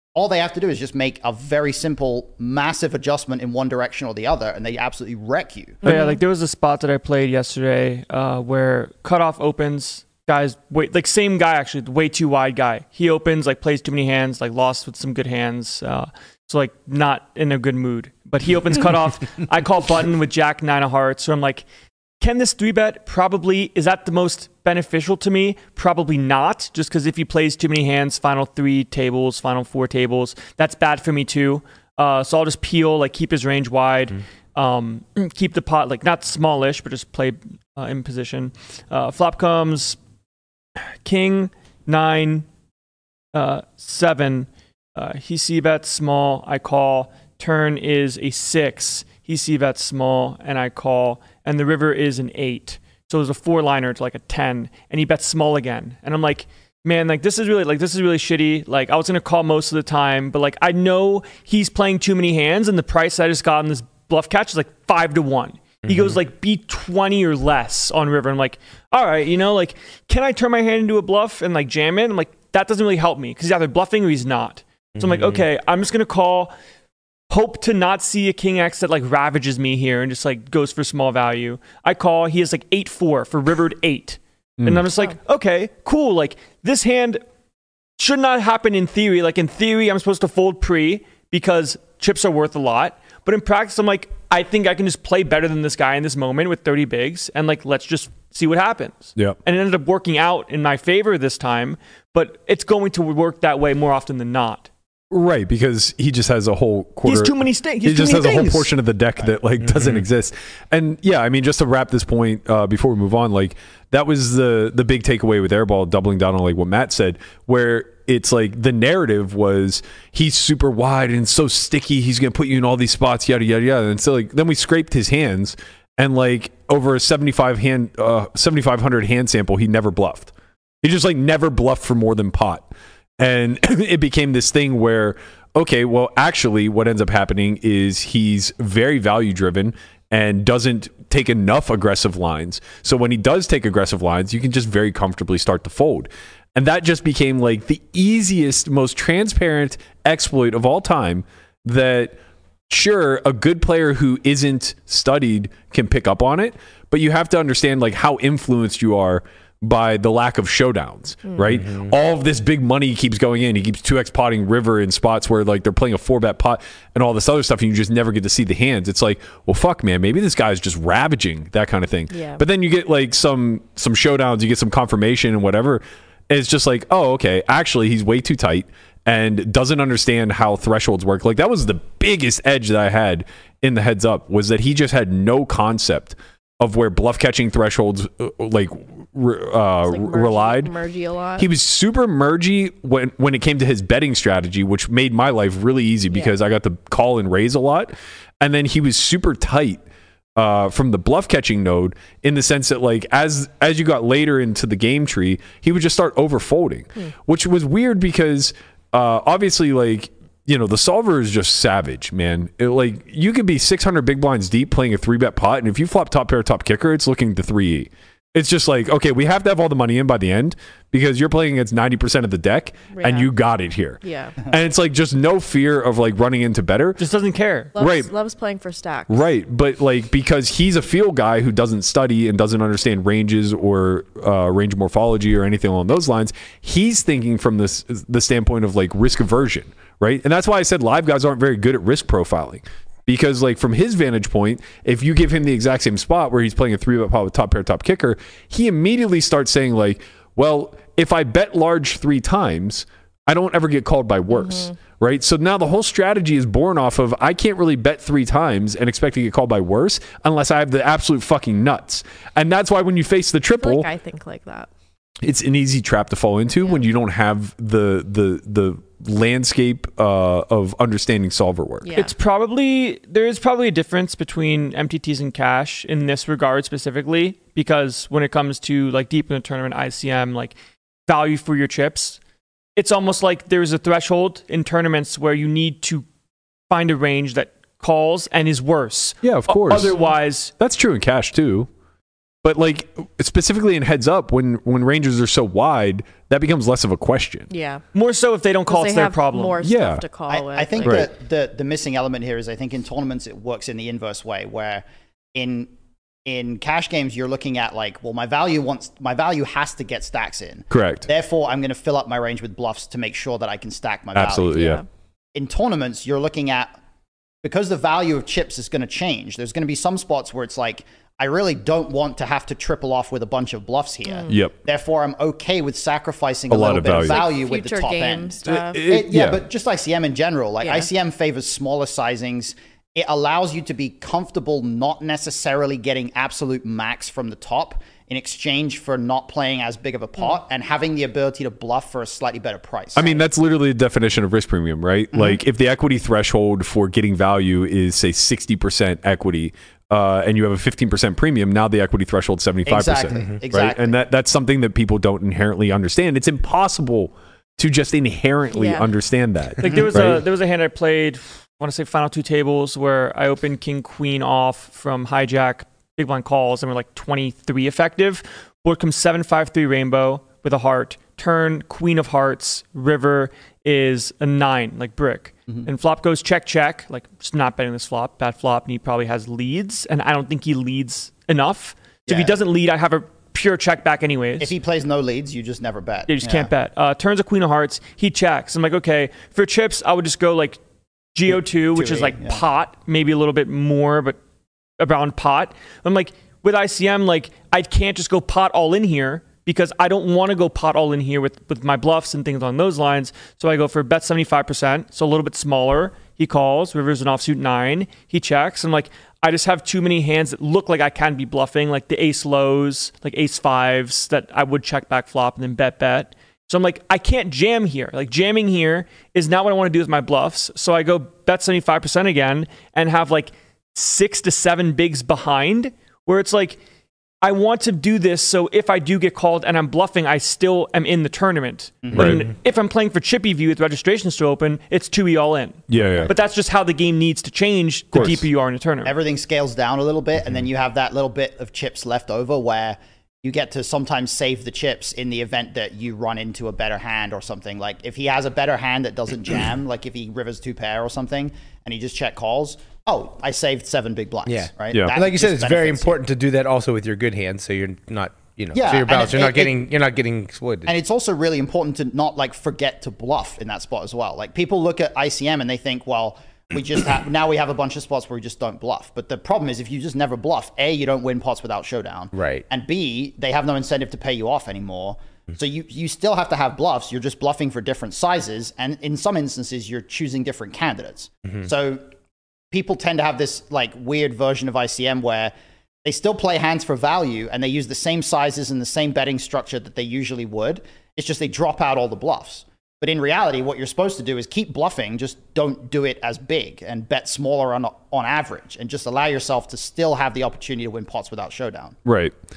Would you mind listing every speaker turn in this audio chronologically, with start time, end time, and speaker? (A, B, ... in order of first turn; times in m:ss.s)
0:00.1-0:05.8 A
0:05.8-0:21.7 B
0:05.8-0:06.2 C
0:22.2-0:40.0 B
0:40.8-0:42.5 B
0:43.3-1:16.5 B
1:05.8-1:06.2 D
1:15.0-1:15.4 D
1:17.3-1:27.2 B
1:28.0-1:44.7 B
1:45.1-2:32.2 E
1:47.0-1:48.7 B
1:49.6-1:50.0 D
2:32.7-3:10.7 E
2:41.2-2:41.5 C
2:41.4-2:41.9 D
2:52.1-2:52.4 C
3:09.8-3:11.5 C
3:11.4-3:19.8 E
3:20.4-3:47.0 E
3:42.9-3:43.3 C
3:44.0-3:44.4 C
3:47.0-3:47.7 B
3:47.7-3:49.2 C
3:47.8-3:48.1 E
3:49.1-4:23.9 E
4:14.3-4:14.7 C
4:23.6-4:24.7 C
4:25.2-4:31.9 E
4:31.8-4:32.1 C
4:31.9-4:40.6 B
4:41.1-4:42.2 B
4:42.8-4:46.0 B
4:46.7-4:50.5 B
4:49.2-4:49.9 E
4:50.6-4:51.7 E
4:52.4-4:57.5 E
4:57.5-4:57.8 C
4:57.9-4:59.6 B
4:58.6-5:01.0 C
4:59.6-5:00.0 E
5:00.3-5:05.7 A
5:00.8-5:01.1 E
5:06.2-5:14.7 A
5:10.7-5:11.1 E
5:14.1-5:14.8 E
5:14.5-5:14.8 C
5:15.3-5:16.7 A
5:17.4-5:43.2 A
5:24.0-5:24.3 C
5:24.3-5:24.5 E
5:26.5-5:27.2 E
5:27.0-5:28.8 C
5:28.4-5:29.4 E
5:30.6-5:30.9 C
5:42.9-6:00.2 E
5:52.6-5:53.9 A
5:58.5-5:58.9 C
5:59.6-6:24.5 B
6:22.1-6:22.4 A
6:24.4-6:26.5 A
6:26.1-6:30.6 B
6:31.1-6:34.2 B
6:31.3-6:32.4 A
6:34.8-7:06.6 B
7:07.2-7:19.0 B
7:11.8-7:12.2 A
7:11.9-7:12.2 E
7:15.7-7:16.1 E
7:17.9-7:18.2 E
7:18.8-7:36.0 A
7:34.2-7:40.7 D
7:38.5-7:39.6 A
7:40.6-8:01.8 A
7:52.1-7:52.4 D
8:02.5-8:05.3 A
8:05.8-8:21.7 A
8:21.8-8:22.1 E